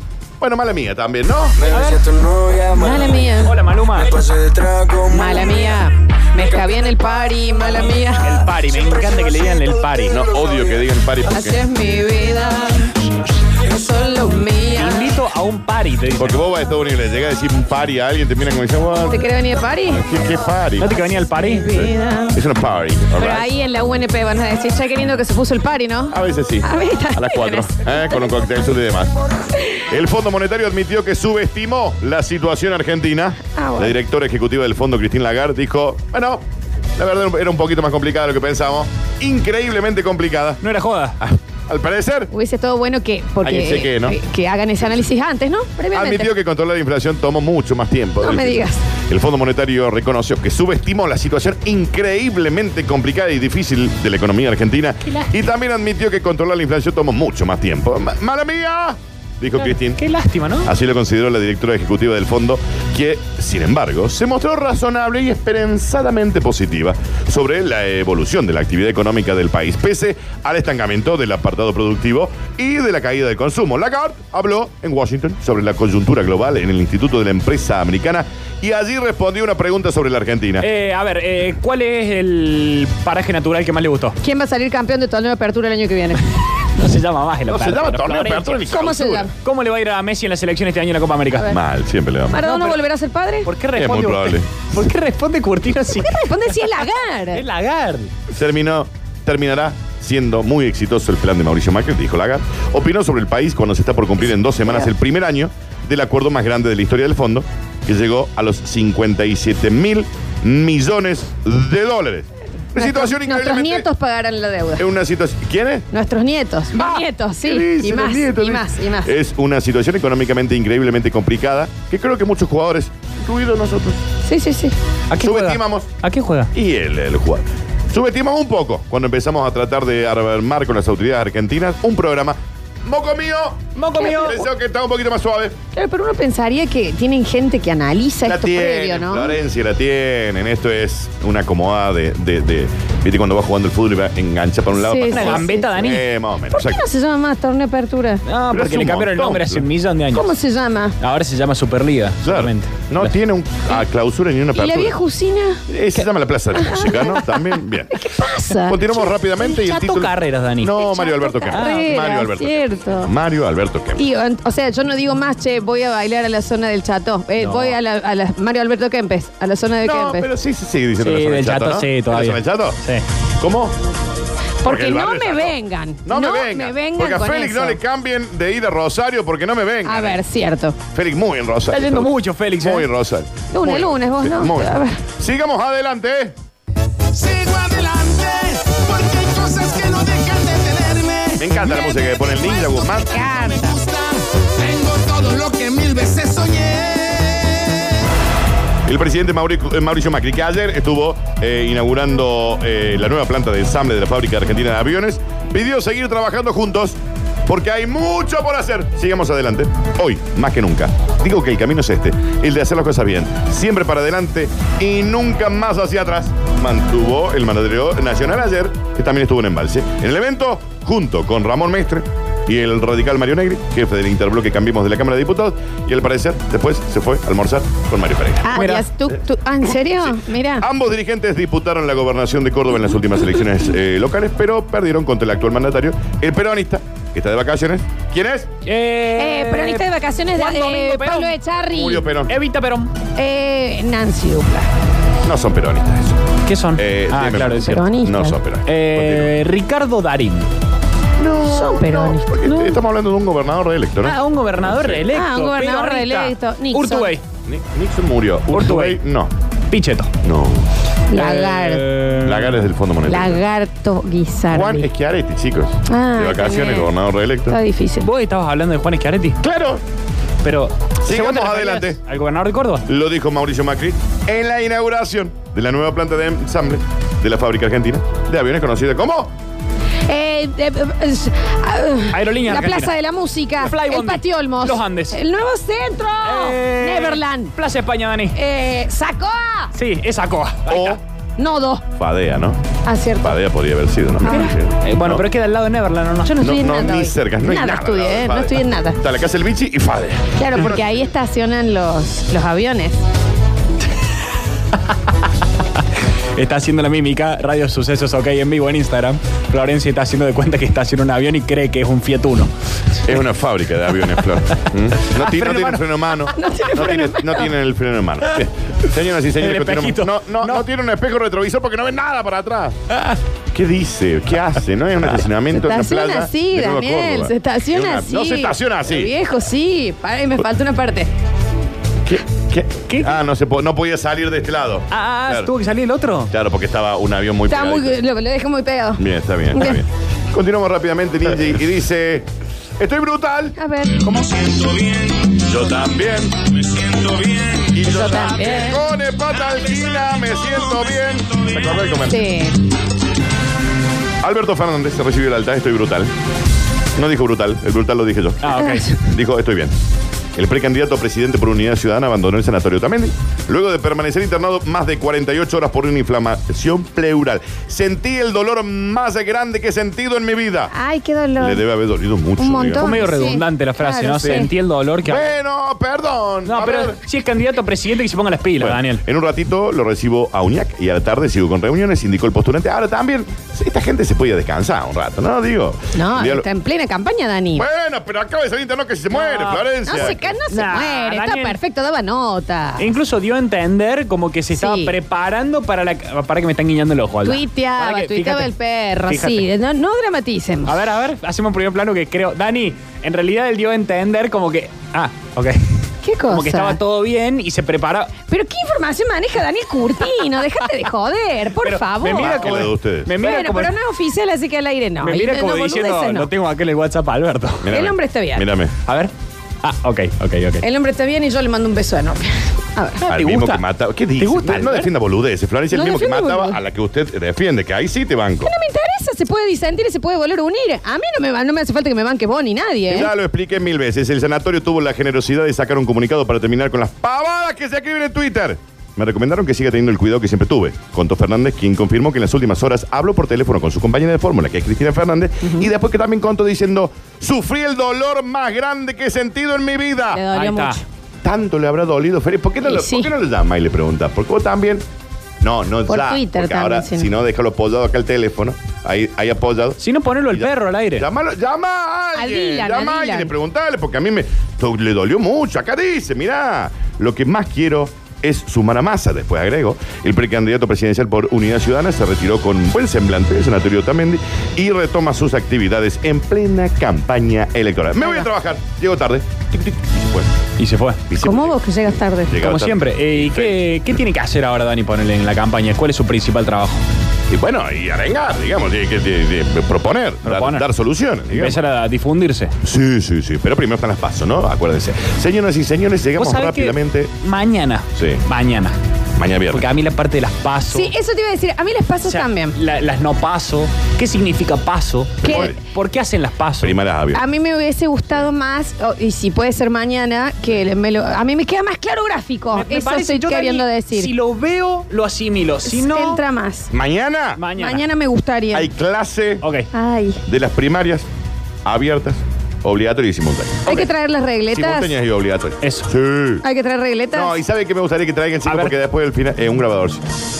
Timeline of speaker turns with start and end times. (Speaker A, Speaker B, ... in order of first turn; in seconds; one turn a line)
Speaker A: 0.4-1.6
Speaker B: 1.6-2.4
Speaker C: 2.2-2.7
Speaker D: 2.7-3.6
Speaker B: 3.4-4.2
Speaker C: 4.2-5.0
Speaker D: 5.0-8.3
Speaker B: 8.2-10.2
Speaker A: 10.1-11.6
Speaker D: 11.3-15.2
Speaker B: 14.8-16.4
Speaker A: 16.1-19.2
Speaker D: 19.1-20.0
Speaker A: 19.9-20.9
Speaker B: 20.8-21.7
Speaker D: 21.4-22.4
Speaker A: 21.6-23.5
Speaker D: 23.1-28.3
Speaker A: 26.1-29.1
Speaker A: 29.8-36.4
Speaker D: 33.5-34.0
Speaker A: 37.0-40.6
Speaker B: 40.6-41.2
Speaker A: 41.2-42.3
Speaker D: 42.3-46.3
Speaker A: 43.4-44.2
Speaker A: 45.9-60.0
Speaker D: 48.2-48.8
Speaker B: 60.0-60.7
Speaker A: 60.6-80.7
Speaker B: 80.6-84.2
Speaker D: 84.2-86.3
Speaker B: 86.6-88.6
Speaker A: 87.5-89.3
Speaker D: 88.6-89.3
Speaker B: 89.4-91.6
Speaker A: 91.4-92.4
Speaker D: 92.3-93.5
Speaker B: 92.4-92.8
Speaker B: 93.4-96.3
Speaker A: 93.7-94.5
Speaker D: 96.0-97.4
Speaker B: 97.3-98.1
Speaker A: 98.3-113.9
Speaker D: 112.7-114.8
Speaker A: 114.8-115.9
Speaker D: 115.9-119.1
Speaker A: 116.7-124.0
Speaker D: 124.2-124.8
Speaker B: 125.1-126.5
Speaker A: 125.2-125.9
Speaker A: 126.5-135.6
Speaker B: 133.8-134.4
Speaker D: 134.0-134.4
Speaker D: 135.7-139.4
Speaker A: 138.2-146.8
Speaker D: 144.7-145.8
Speaker B: 145.1-146.0
Speaker D: 146.5-148.2
Speaker B: 148.2-150.3
Speaker A: 148.5-149.7
Speaker D: 150.1-151.0
Speaker B: 151.0-153.1
Speaker A: 152.2-155.0
Speaker D: 154.5-155.6
Speaker A: 155.7-164.0
Speaker D: 156.5-157.3
Speaker D: 157.9-159.1
Speaker B: 159.4-160.8
Speaker D: 160.7-163.1
Speaker B: 161.5-162.2
Speaker D: 163.9-170.3
Speaker B: 167.4-167.8
Speaker A: 169.8-172.8
Speaker B: 171.0-173.0
Speaker A: 173.4-173.7
Speaker D: 174.6-177.8
Speaker A: 174.6-180.2
Speaker D: 179.8-180.8
Speaker A: 180.9-186.3
Speaker B: 181.7-182.9
Speaker D: 183.5-185.0
Speaker C: 187.1-191.4
Speaker A: 191.3-193.3
Speaker D: 193.0-193.8
Speaker C: 193.4-197.6
Speaker A: 198.8-228.6
Speaker D: 228.4-230.7
Speaker B: 228.5-228.9
Speaker A: 229.8-238.5
Speaker B: 238.6-241.3
Speaker D: 239.2-242.0
Speaker A: 241.6-242.3
Speaker B: 242.3-242.9
Speaker D: 243.2-244.7
Speaker A: 245.2-246.2
Speaker B: 246.4-247.8
Speaker A: 246.8-249.4
Speaker D: 247.6-248.4
Speaker B: 248.7-250.5
Speaker A: 251.2-255.1
Speaker D: 251.4-252.3
Speaker B: 252.4-252.8
Speaker B: 254.0-257.2
Speaker D: 255.1-257.1
Speaker A: 257.4-259.3
Speaker B: 258.5-259.0
Speaker B: 259.7-260.1
Speaker A: 260.2-260.7
Speaker D: 261.1-261.9
Speaker B: 261.1-262.7
Speaker A: 262.2-263.4
Speaker D: 263.1-264.9
Speaker A: 264.5-267.6
Speaker D: 265.9-266.9
Speaker D: 267.5-268.1
Speaker B: 268.0-269.4
Speaker A: 269.4-269.8
Speaker B: 270.4-272.8
Speaker A: 271.0-272.0
Speaker A: 272.8-279.3
Speaker D: 280.1-287.5
Speaker B: 282.1-282.9
Speaker B: 283.6-285.2
Speaker B: 286.2-288.4
Speaker D: 288.3-289.7
Speaker B: 289.7-291.0
Speaker A: 290.7-291.0
Speaker D: 291.4-291.8
Speaker A: 291.9-292.6
Speaker D: 292.8-293.4
Speaker A: 293.2-295.2
Speaker D: 294.2-294.5
Speaker B: 294.2-296.4
Speaker D: 296.2-299.0
Speaker A: 296.4-301.1
Speaker D: 300.4-303.0
Speaker B: 306.0-312.5
Speaker A: 313.0-322.8
Speaker B: 314.3-315.8
Speaker D: 316.3-317.5
Speaker B: 319.4-320.6
Speaker B: 322.9-323.2
Speaker A: 323.5-329.1
Speaker D: 325.5-331.1
Speaker A: 332.1-335.5
Speaker B: 332.9-333.1
Speaker B: 334.9-336.3
Speaker A: 336.3-338.0
Speaker D: 337.5-339.8
Speaker A: 339.0-342.3
Speaker A: 342.8-343.6
Speaker D: 343.6-344.4
Speaker B: 344.1-344.8
Speaker A: 345.3-352.2
Speaker D: 347.8-348.8
Speaker D: 352.1-352.6
Speaker A: 354.2-356.1
Speaker A: 356.9-359.7
Speaker B: 358.4-359.0
Speaker D: 358.5-359.0
Speaker A: 360.4-370.7
Speaker D: 370.7-371.6
Speaker A: 371.4-372.9
Speaker D: 372.4-374.5
Speaker B: 372.8-375.3
Speaker A: 375.0-377.0
Speaker B: 376.4-379.0
Speaker A: 378.6-386.4
Speaker D: 385.9-387.6
Speaker A: 387.5-390.4
Speaker B: 389.1-391.6
Speaker D: 389.9-392.9
Speaker B: 392.8-398.5
Speaker D: 394.5-394.9
Speaker D: 397.2-400.8
Speaker B: 399.1-399.5
Speaker B: 400.6-408.1
Speaker D: 406.0-406.8
Speaker D: 408.3-412.6
Speaker B: 411.6-413.7
Speaker A: 412.1-413.1
Speaker D: 413.1-416.3
Speaker B: 415.0-417.8
Speaker A: 417.6-418.7
Speaker D: 417.7-418.4
Speaker B: 418.8-420.6
Speaker D: 420.6-423.0
Speaker B: 423.0-423.6
Speaker A: 423.1-428.5
Speaker B: 424.2-424.9
Speaker D: 425.7-426.6
Speaker D: 428.4-433.1
Speaker A: 432.9-450.2
Speaker D: 450.1-450.8
Speaker B: 450.3-450.8
Speaker A: 451.2-454.8
Speaker D: 452.6-453.1
Speaker A: 455.4-459.8
Speaker D: 455.9-457.1
Speaker B: 459.8-461.1
Speaker A: 460.3-480.4
Speaker D: 462.1-463.3
Speaker D: 478.0-478.3
Speaker B: 480.6-481.0
Speaker A: 481.1-483.6
Speaker D: 481.2-482.4
Speaker B: 482.4-486.8
Speaker A: 487.3-491.6
Speaker B: 490.2-490.6
Speaker B: 491.3-492.5
Speaker A: 492.6-497.1
Speaker B: 496.2-498.8
Speaker A: 497.9-498.2
Speaker A: 499.2-499.7
Speaker B: 499.5-500.9
Speaker D: 500.7-502.6
Speaker B: 502.1-506.8
Speaker D: 505.2-505.5
Speaker A: 505.2-505.6
Speaker A: 506.6-507.2
Speaker D: 507.1-514.1
Speaker B: 512.5-516.2
Speaker D: 515.6-516.7
Speaker A: 516.7-517.4
Speaker B: 517.4-517.9
Speaker D: 517.5-518.7
Speaker A: 518.5-519.4
Speaker B: 519.4-519.7
Speaker D: 519.7-520.2
Speaker A: 520.2-521.1
Speaker A: 521.6-523.9
Speaker D: 523.6-524.9
Speaker A: 524.5-526.4
Speaker B: 525.6-525.9
Speaker D: 526.4-527.4
Speaker A: 527.1-530.1
Speaker B: 528.5-528.7